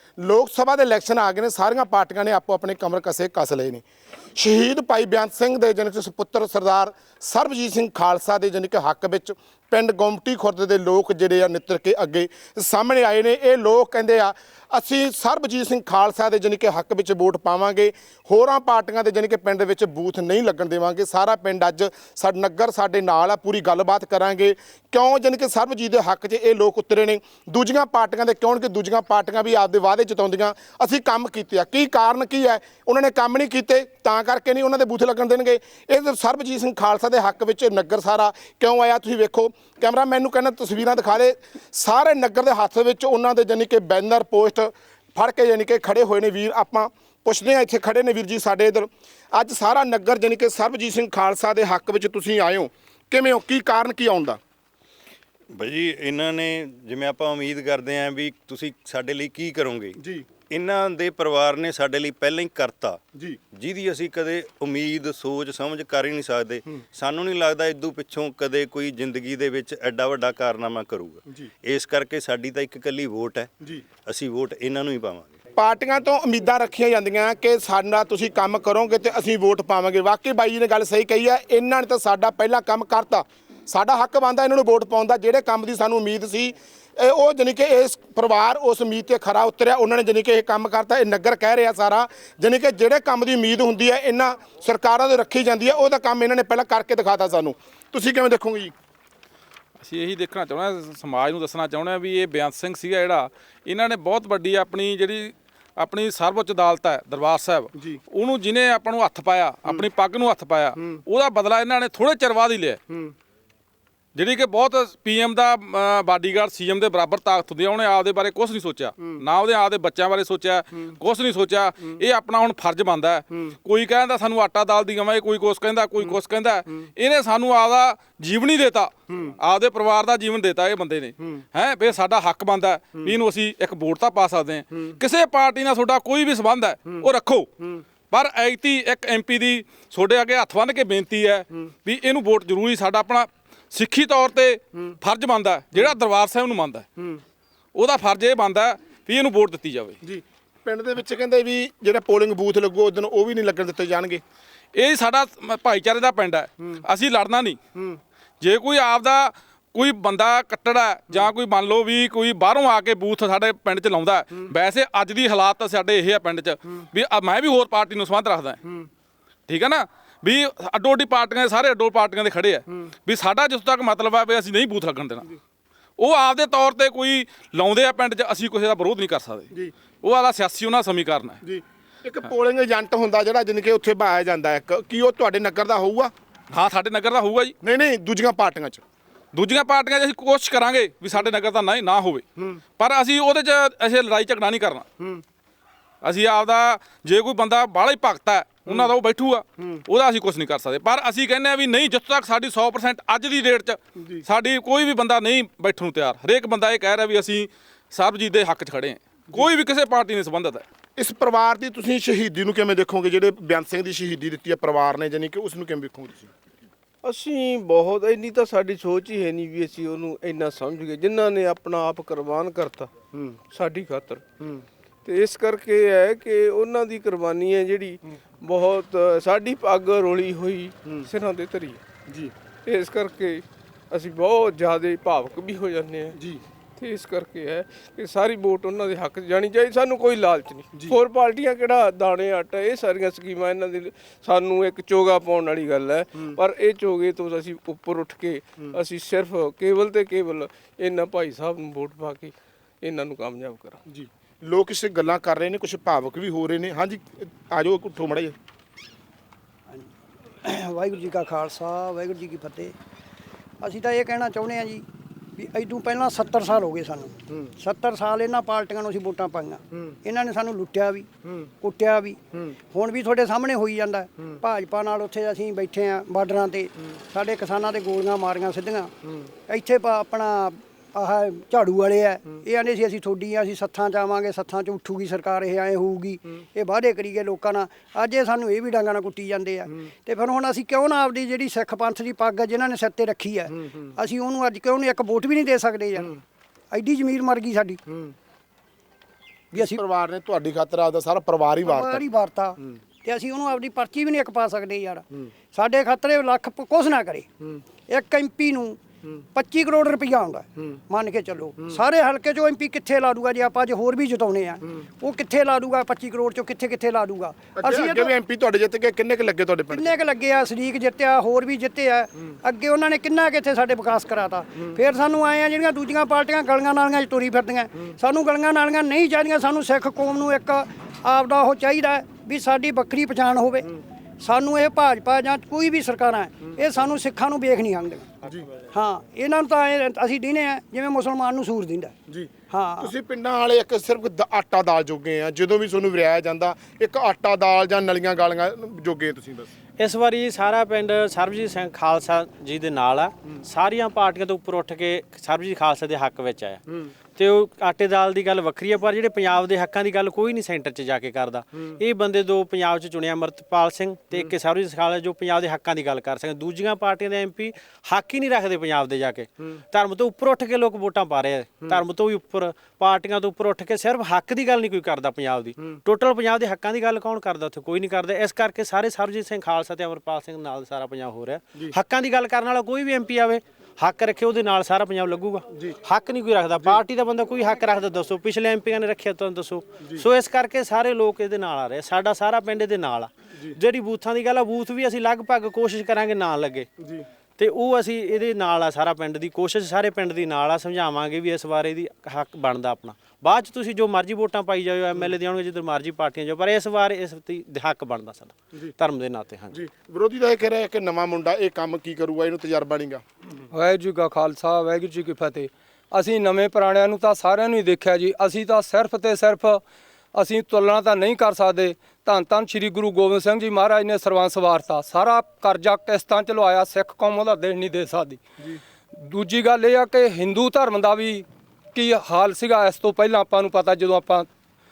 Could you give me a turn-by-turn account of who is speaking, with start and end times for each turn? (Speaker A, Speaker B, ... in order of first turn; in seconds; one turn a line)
Speaker A: 0.2-3.8
Speaker A: 4.4-54.4
Speaker B: 55.5-63.0
Speaker B: 63.5-73.5
Speaker B: 74.1-75.3
Speaker A: 75.5-98.7
Speaker C: 99.8-112.8
Speaker C: 114.2-137.5
Speaker C: 138.1-146.9
Speaker C: 147.8-150.0
Speaker A: 150.0-154.2
Speaker C: 154.8-157.6
Speaker C: 158.4-168.6
Speaker C: 169.5-175.2
Speaker C: 176.0-179.5
Speaker C: 180.0-181.4
Speaker A: 181.4-186.1
Speaker C: 186.5-187.5
Speaker A: 187.6-188.8
Speaker C: 189.3-192.2
Speaker C: 192.8-194.9
Speaker C: 196.0-210.6
Speaker A: 211.0-216.3
Speaker D: 217.0-222.9
Speaker D: 223.5-224.2
Speaker D: 225.1-231.8
Speaker D: 232.7-236.2
Speaker D: 236.8-253.8
Speaker A: 253.9-258.4
Speaker E: 260.4-262.7
Speaker E: 263.6-264.9
Speaker E: 265.4-272.2
Speaker E: 272.7-278.9
Speaker E: 279.5-296.2
Speaker E: 296.7-297.8
Speaker E: 299.5-299.8
Speaker A: 299.5-302.1
Speaker E: 301.6-307.3
Speaker E: 307.9-308.8
Speaker E: 309.4-318.1
Speaker A: 317.6-320.0
Speaker E: 319.7-338.1
Speaker E: 338.7-341.9
Speaker A: 342.1-349.5
Speaker E: 342.5-342.9
Speaker F: 349.8-356.6
Speaker F: 357.2-396.7
Speaker F: 397.4-409.6
Speaker A: 409.5-413.0
Speaker G: 413.5-419.6
Speaker G: 420.2-428.2
Speaker G: 428.9-434.3